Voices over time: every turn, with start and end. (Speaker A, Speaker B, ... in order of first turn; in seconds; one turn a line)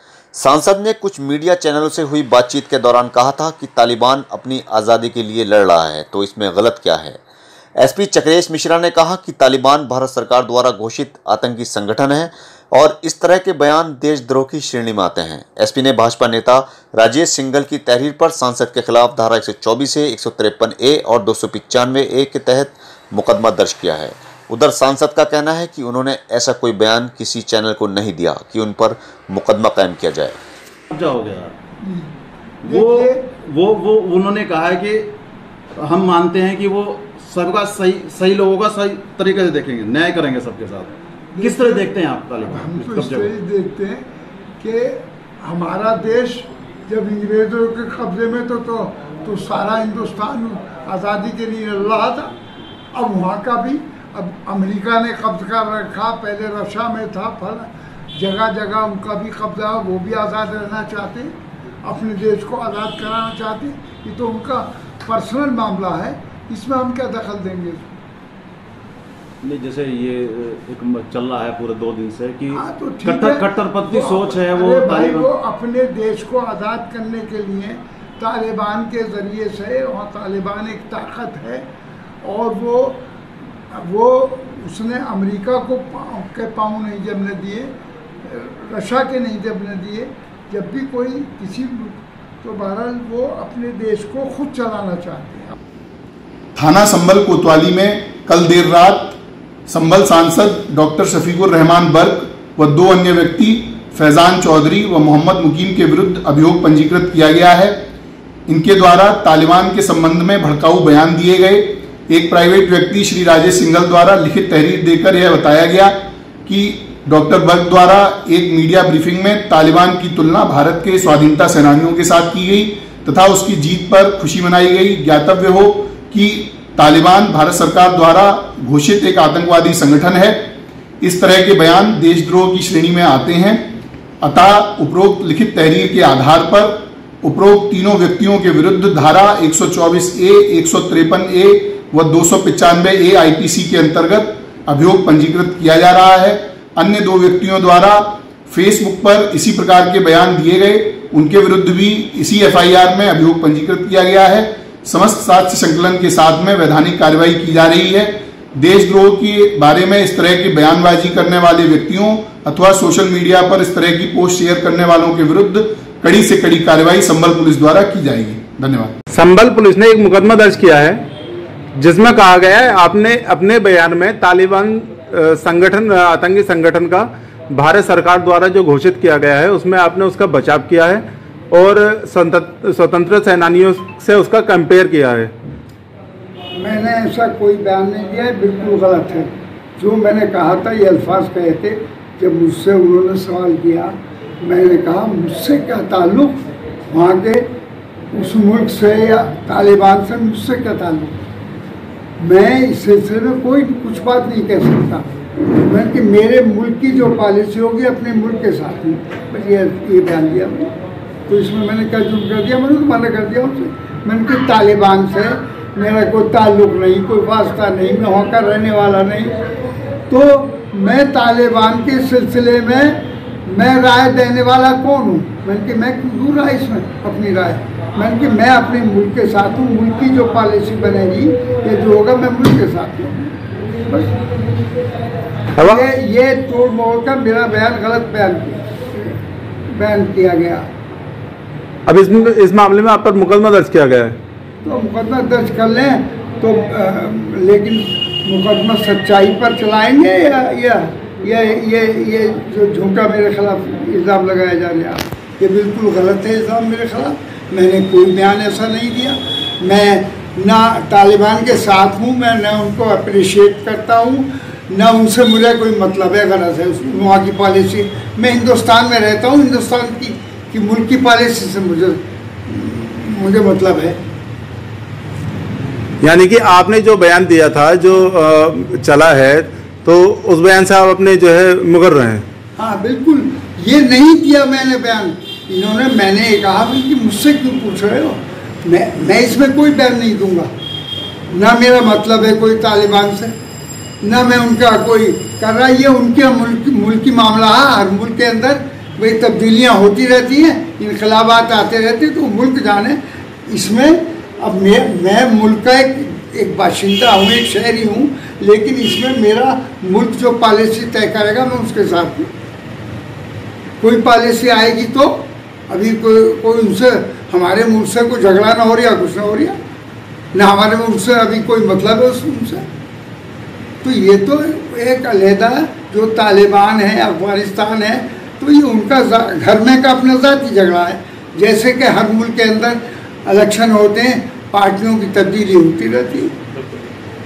Speaker A: 0.3-7.2
Speaker A: 7.8-30.4
Speaker B: 30.9-31.6
Speaker C: 31.8-32.1
Speaker B: 32.6-35.1
Speaker C: 32.7-33.2
Speaker B: 35.8-43.3
Speaker C: 41.4-41.9
Speaker C: 42.5-44.0
Speaker C: 44.6-52.3
Speaker C: 52.9-61.3
Speaker C: 61.8-68.0
Speaker B: 69.4-75.3
Speaker C: 72.6-81.6
Speaker C: 82.2-83.0
Speaker C: 83.7-87.7
Speaker C: 88.2-95.5
Speaker D: 96.5-107.8
Speaker D: 108.5-133.6
Speaker D: 134.2-168.9
Speaker E: 169.1-171.1
Speaker E: 171.8-185.3
Speaker C: 186.6-197.4
Speaker C: 198.1-201.2
Speaker C: 202.2-210.7
Speaker C: 211.3-219.3
Speaker C: 220.1-233.3
Speaker E: 235.6-235.8
Speaker C: 235.6-239.2
Speaker C: 239.7-240.7
Speaker E: 241.9-244.2
Speaker C: 244.6-274.0
Speaker E: 276.0-282.2
Speaker C: 282.6-290.5
Speaker C: 291.3-293.3
Speaker C: 294.0-312.3
Speaker C: 313.8-319.6
Speaker C: 320.3-322.6
Speaker C: 323.8-336.3